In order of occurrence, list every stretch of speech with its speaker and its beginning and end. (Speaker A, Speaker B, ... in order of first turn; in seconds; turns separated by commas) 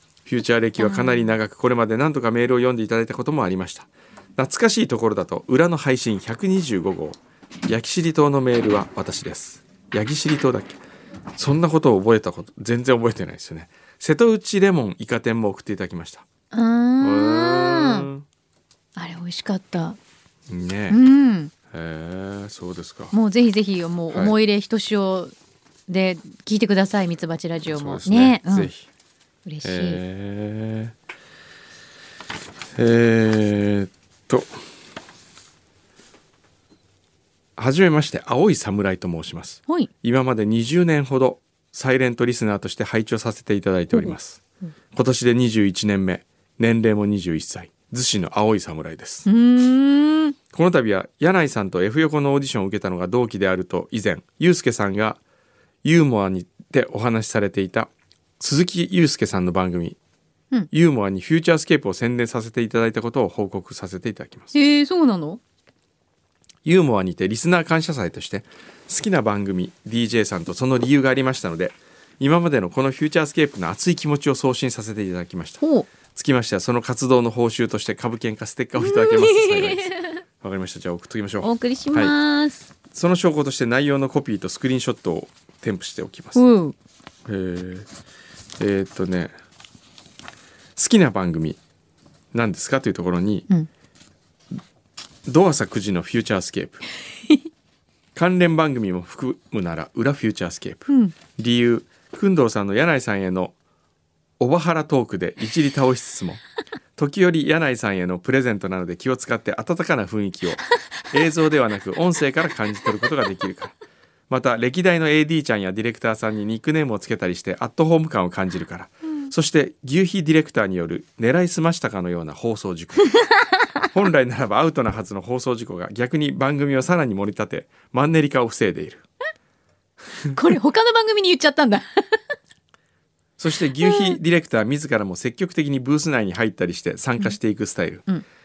Speaker A: 0.2-10.8, Speaker B: 0.8-1.4, Speaker A: 11.4-16.2, Speaker B: 16.5-18.1, Speaker A: 17.0-18.2, Speaker B: 18.9-20.0, Speaker A: 20.5-21.0, Speaker B: 20.9-21.5, Speaker A: 21.7-23.1, Speaker B: 23.1-25.3, Speaker B: 25.9-28.7, Speaker A: 27.7-28.9, Speaker B: 29.4-30.0, Speaker A: 29.6-30.9, Speaker A: 32.8-34.5, Speaker A: 37.6-44.4, Speaker A: 44.9-49.2, Speaker B: 49.2-50.4, Speaker A: 50.5-55.2, Speaker A: 55.8-60.0, Speaker A: 60.7-64.5, Speaker B: 64.5-65.4, Speaker A: 66.6-82.1, Speaker B: 75.6-75.9, Speaker B: 78.8-80.2, Speaker B: 81.4-82.6, Speaker A: 82.9-86.4, Speaker B: 86.3-86.7, Speaker A: 87.2-87.9, Speaker A: 88.6-89.3, Speaker A: 90.8-91.6, Speaker A: 92.3-93.5, Speaker A: 95.3-96.8, Speaker A: 98.1-103.5, Speaker B: 100.9-101.1, Speaker A: 104.4-106.4, Speaker A: 107.0-113.7, Speaker A: 114.3-123.3, Speaker A: 123.9-129.0, Speaker B: 130.3-132.2, Speaker A: 133.4-138.1, Speaker B: 133.8-134.2